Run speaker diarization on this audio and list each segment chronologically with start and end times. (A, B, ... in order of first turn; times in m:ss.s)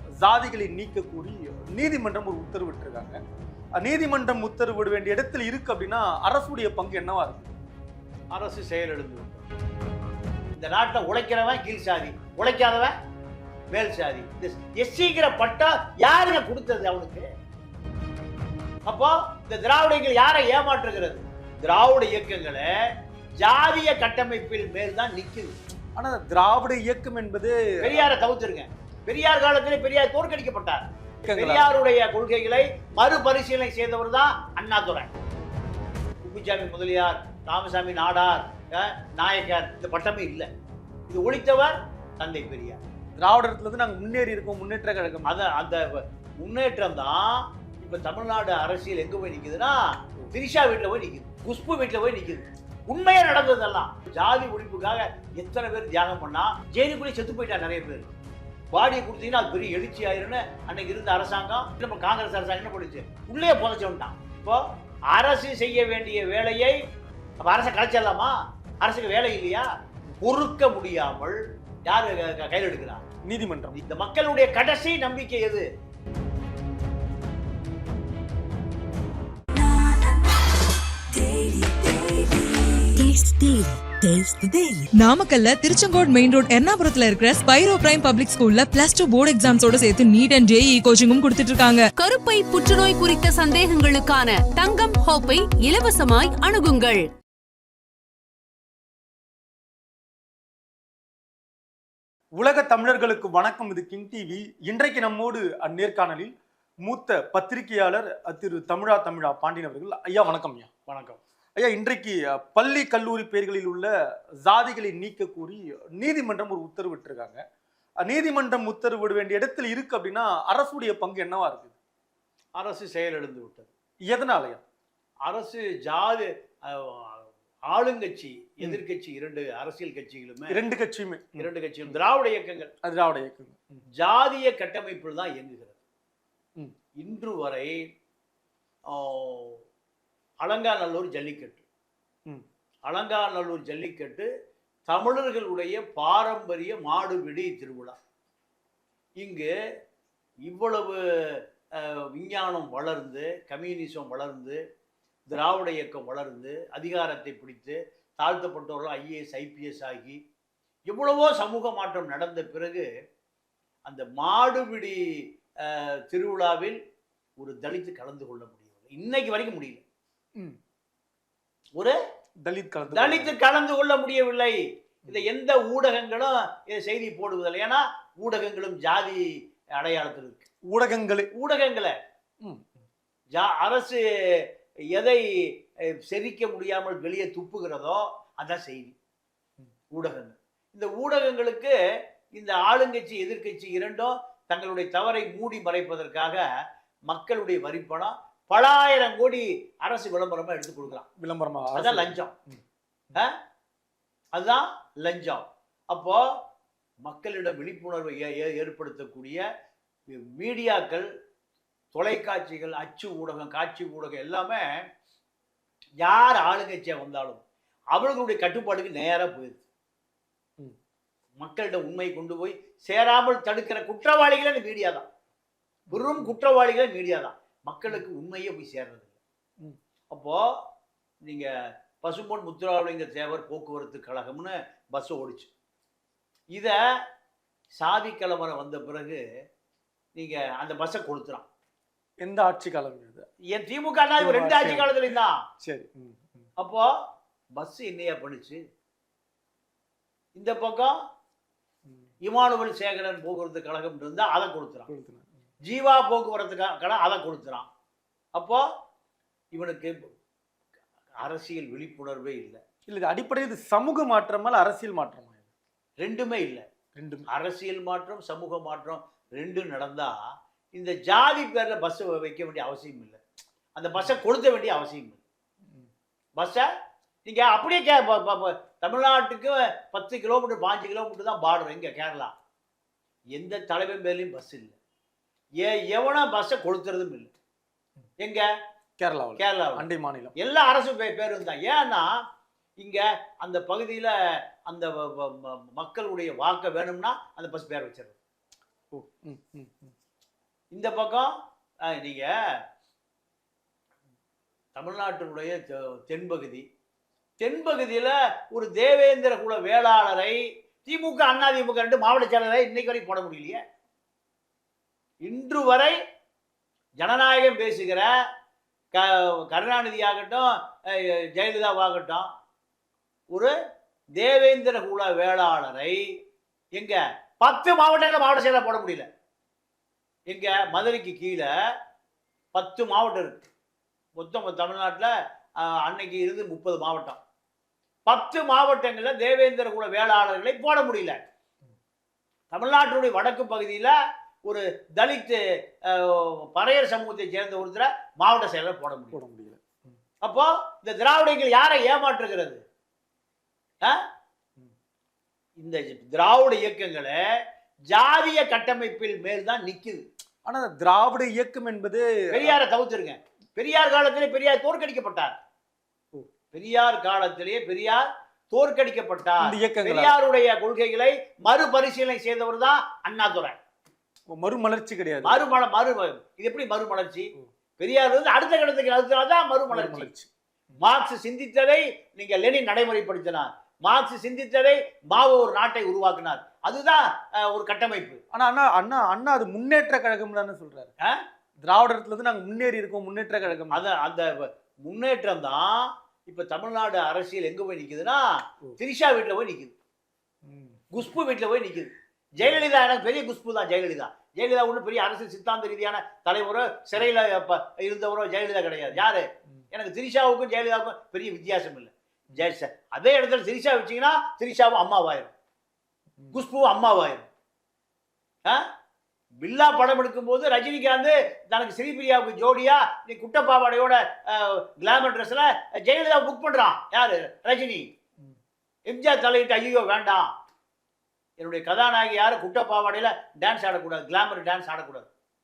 0:00.2-0:03.2 A
0:03.8-0:07.5 A
0:08.3-0:09.5 B
0:10.5-0:13.0 B
0:13.7-0:17.3 B
0:18.9-0:22.7 B
0:23.4-0:25.5 B
0:26.0-0:28.1 A
0:27.8-0:35.1 B
0:31.2-0:31.7 A
0:36.2-0:40.5 B
0:41.1-0:42.8 B
0:43.2-0:45.3 A
0:45.2-0:58.1 B
0:58.7-1:06.8 B
1:07.4-1:09.7 B
1:10.2-1:13.0 B
1:13.2-1:13.8 A
1:13.7-1:15.7 B
1:23.0-1:31.8 C
1:32.0-1:37.1 D
1:42.4-1:46.3 A
1:46.8-1:50.7 A
1:50.9-1:51.2 B
1:51.6-1:53.9 A
1:54.4-1:57.4 A
1:58.0-2:01.8 A
2:02.6-2:03.7 B
2:04.1-2:04.6 A
2:05.2-2:10.6 B
2:10.5-2:11.5 A
2:11.4-2:12.7 B
2:12.8-2:13.8 A
2:14.0-2:15.8 B
2:17.0-2:17.8 B
2:18.9-2:19.6 B
2:20.4-2:21.6 B
2:22.9-2:24.3 B
2:24.9-2:28.0 B
2:29.2-2:29.5 B
2:30.4-2:34.6 B
2:35.3-2:40.2 B
2:40.9-2:42.9 B
2:43.9-2:46.8 B
2:47.4-2:49.8 B
2:52.4-2:53.4 A
2:52.9-2:54.6 B
2:55.1-3:00.5 B
3:00.7-3:01.3 A
3:01.3-3:02.0 B
3:03.3-3:09.0 B
3:09.9-3:11.8 B
3:12.3-3:16.5 B
3:17.1-3:21.1 B
3:21.2-3:22.6 A
3:21.8-3:22.3 B
3:24.3-3:26.3 B
3:27.0-3:29.4 B
3:30.1-3:31.1 B
3:31.9-3:34.7 B
3:36.0-3:37.4 B
3:37.9-3:39.6 B
3:41.4-3:45.1 B
3:45.9-3:49.2 B
3:45.9-3:46.3 A
3:50.1-3:50.7 B
3:51.2-3:55.5 B
3:56.5-3:56.8 B
3:57.8-3:59.2 B
4:00.2-4:01.5 B
4:02.2-4:03.3 A
4:03.5-4:05.4 B
4:04.2-4:06.5 A
4:06.6-4:06.9 B
4:07.6-4:08.6 B
4:10.4-4:11.0 B
4:12.2-4:14.9 B
4:14.9-4:15.3 A
4:15.6-4:17.7 B
4:18.4-4:18.6 B
4:19.5-4:20.1 B
4:21.2-4:22.6 B
4:22.9-4:25.4 A
4:26.0-4:26.6 B
4:27.0-4:27.3 A
4:27.3-4:30.2 B
4:30.7-4:33.2 B
4:33.8-4:35.2 B
4:36.4-4:36.7 B
4:37.2-4:42.3 B
4:43.3-4:44.8 B
4:45.6-4:47.3 B
4:48.2-4:48.5 B
4:49.0-4:50.3 A
4:49.4-4:49.8 B
4:50.4-4:52.1 B
4:52.8-4:58.2 B
4:58.9-4:59.9 A
5:00.7-5:02.3 B
5:04.8-5:06.6 B
5:07.4-5:13.6 B
5:15.2-5:16.0 B
5:17.0-5:18.1 B
5:18.9-5:22.3 B
5:24.2-5:26.0 B
5:26.8-5:29.1 B
5:30.3-5:31.5 B
5:32.5-5:33.4 B
5:34.2-5:37.2 B
5:38.1-5:41.2 B
5:42.5-5:49.2 B
5:49.1-5:50.0 A
5:50.2-5:52.6 B
5:55.6-5:57.2 B
5:57.9-6:00.0 B
6:00.5-6:02.6 A
6:02.3-6:05.3 B
6:06.5-6:13.6 B
6:09.4-6:10.2 A
6:14.3-6:15.4 A
6:15.2-6:20.1 B
6:19.7-6:20.3 A
6:20.8-6:28.2 B
6:28.3-6:30.9 A
6:31.6-6:33.8 A
6:33.7-6:38.2 B
6:38.8-6:39.7 B
6:40.4-6:40.9 A
6:40.9-6:55.3 B
6:56.3-6:57.3 B
6:59.4-7:07.9 B
7:08.9-7:10.3 B
7:11.4-7:15.1 B